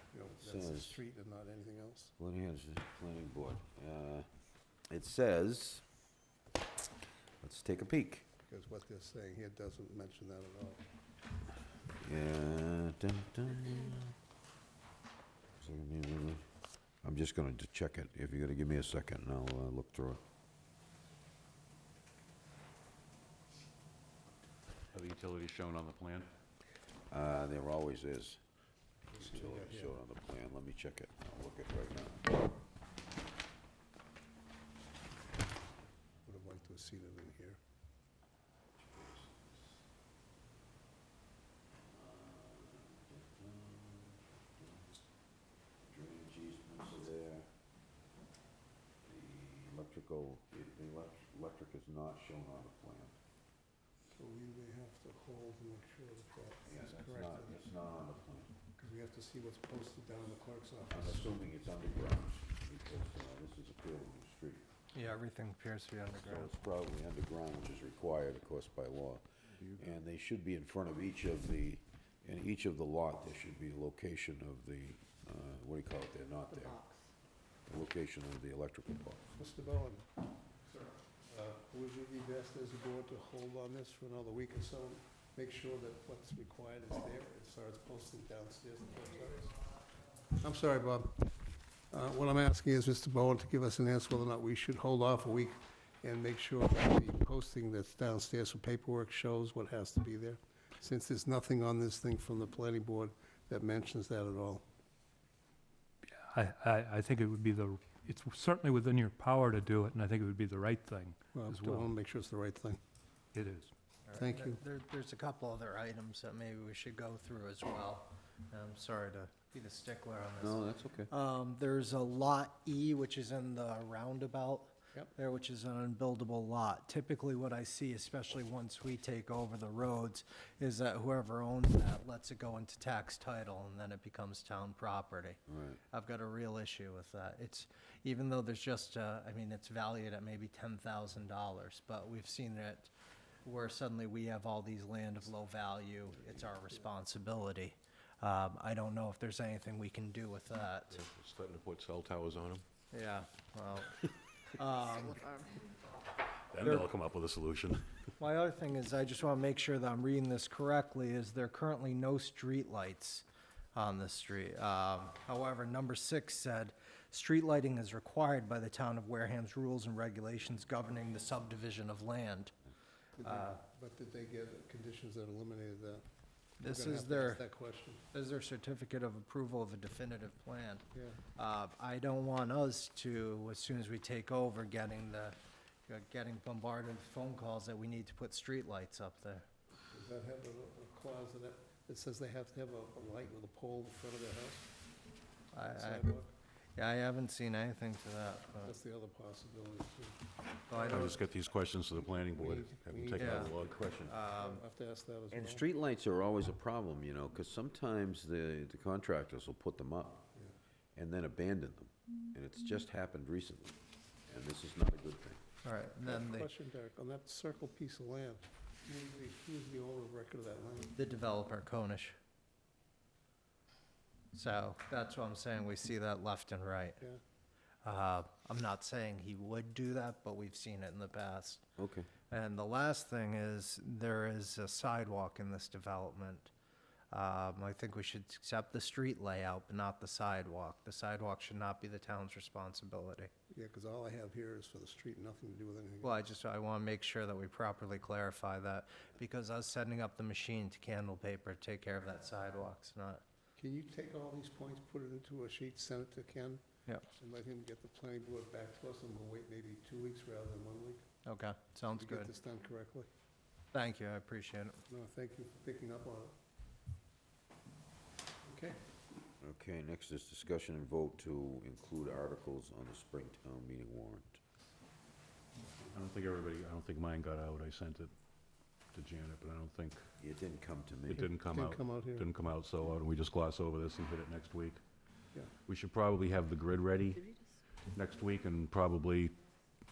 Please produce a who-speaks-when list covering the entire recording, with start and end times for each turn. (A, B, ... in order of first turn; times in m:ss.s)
0:00.1-0:02.1 A
0:00.4-0:01.0 B
0:02.2-0:04.3 B
0:04.9-0:05.8 B
0:07.4-0:08.2 B
0:08.4-0:10.8 A
0:12.0-0:14.1 B
0:15.6-0:16.5 B
0:17.0-0:20.2 B
0:24.9-0:26.3 C
0:27.1-0:28.4 B
0:29.1-0:30.0 A
0:29.2-0:32.4 B
0:36.2-0:37.6 A
0:38.8-0:39.8 B
0:41.8-0:45.0 B
0:45.8-0:47.5 B
0:49.0-0:53.2 B
0:54.1-0:57.6 A
0:56.6-0:58.5 B
0:58.8-1:01.4 A
1:00.9-1:04.6 B
1:04.9-1:06.5 D
1:06.1-1:16.8 B
1:17.7-1:19.3 B
1:19.4-1:20.1 A
1:20.6-1:29.6 A
1:30.3-1:31.3 A
1:31.9-1:44.6 A
1:46.1-1:51.9 E
1:51.3-1:52.8 A
1:53.3-1:53.7 E
1:54.1-2:22.9 D
1:54.1-1:54.6 A
2:00.4-2:01.1 B
2:15.5-2:15.8 B
2:23.4-2:31.0 D
2:30.9-2:32.6 C
2:32.9-2:34.0 D
2:34.5-2:35.3 D
2:36.5-2:38.1 C
2:36.6-2:36.9 D
2:38.2-2:52.5 D
2:53.2-2:56.0 A
2:53.2-2:53.6 D
2:56.6-2:57.4 D
2:56.6-2:58.0 A
2:58.1-3:09.4 D
3:00.9-3:01.2 A
3:09.9-3:14.7 A
3:15.5-3:16.1 D
3:15.7-3:16.3 A
3:16.8-3:18.7 D
3:18.6-3:21.2 A
3:20.7-3:21.2 D
3:20.8-3:23.9 C
3:22.3-3:25.6 A
3:23.2-3:23.5 D
3:23.6-3:24.2 B
3:24.0-3:24.6 D
3:25.3-3:30.3 B
3:30.9-3:35.4 B
3:35.6-3:36.5 D
3:36.0-3:40.9 A
3:40.9-3:42.2 D
3:44.3-3:47.0 D
3:47.8-3:51.6 D
3:51.8-3:52.1 B
3:52.3-3:56.5 D
3:57.1-4:03.3 D
4:03.5-4:06.1 A
4:06.0-4:13.2 D
4:13.6-4:21.0 A
4:21.2-4:22.3 D
4:21.9-4:23.1 A
4:23.7-4:24.8 D
4:24.9-4:26.3 A
4:28.4-4:28.8 A
4:29.4-4:34.4 B
4:35.9-4:38.1 C
4:38.9-4:40.0 C
4:40.2-4:41.3 B
4:41.1-4:44.8 C
4:41.4-4:42.3 A
4:45.6-4:47.3 C
4:47.9-4:49.4 C